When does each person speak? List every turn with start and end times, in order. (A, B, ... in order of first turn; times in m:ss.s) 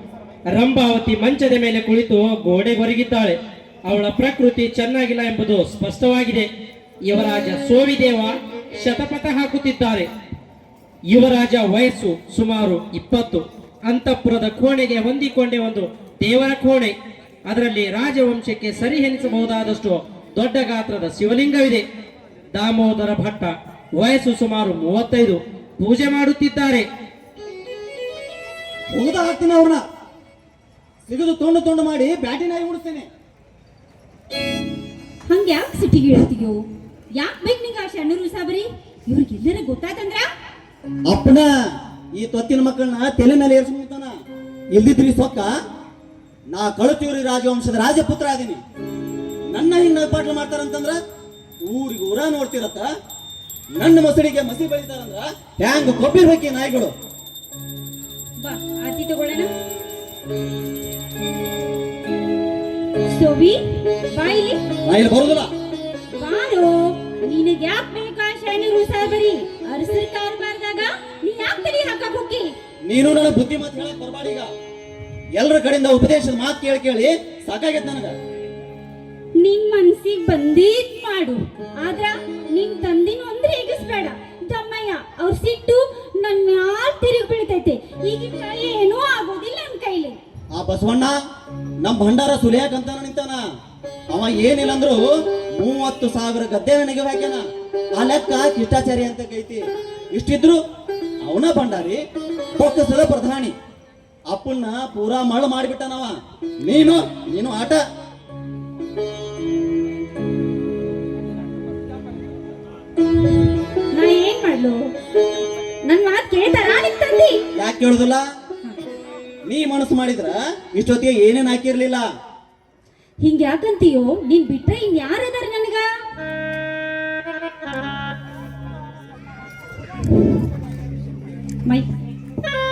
0:00.5-0:06.5 A
0:07.0-0:10.1 A
0:11.1-0:21.8 A
0:22.5-0:26.9 A
0:28.9-0:29.8 B
0:31.1-0:33.1 B
0:35.3-0:36.6 C
0:37.2-0:40.3 C
0:41.1-0:41.5 B
0:42.2-0:44.1 B
0:44.7-0:45.5 B
0:46.5-0:48.6 B
0:49.5-0:51.0 B
0:51.7-0:52.9 B
0:53.8-0:56.9 B
0:58.4-0:59.5 C
1:03.1-1:04.6 C
1:04.9-1:05.5 B
1:06.2-1:12.5 C
1:12.9-1:14.5 B
1:15.4-1:18.1 B
1:19.4-1:30.2 C
1:30.6-1:31.1 B
1:31.8-1:33.4 B
1:34.1-1:35.0 B
1:35.6-1:37.4 B
1:38.0-1:39.6 B
1:40.1-1:40.6 B
1:41.2-1:42.0 B
1:42.6-1:43.5 B
1:44.3-1:46.1 B
1:46.7-1:47.8 B
1:53.9-1:54.9 C
1:55.8-1:57.4 C
1:57.6-1:58.2 B
1:59.5-2:02.0 B
2:03.2-2:05.9 C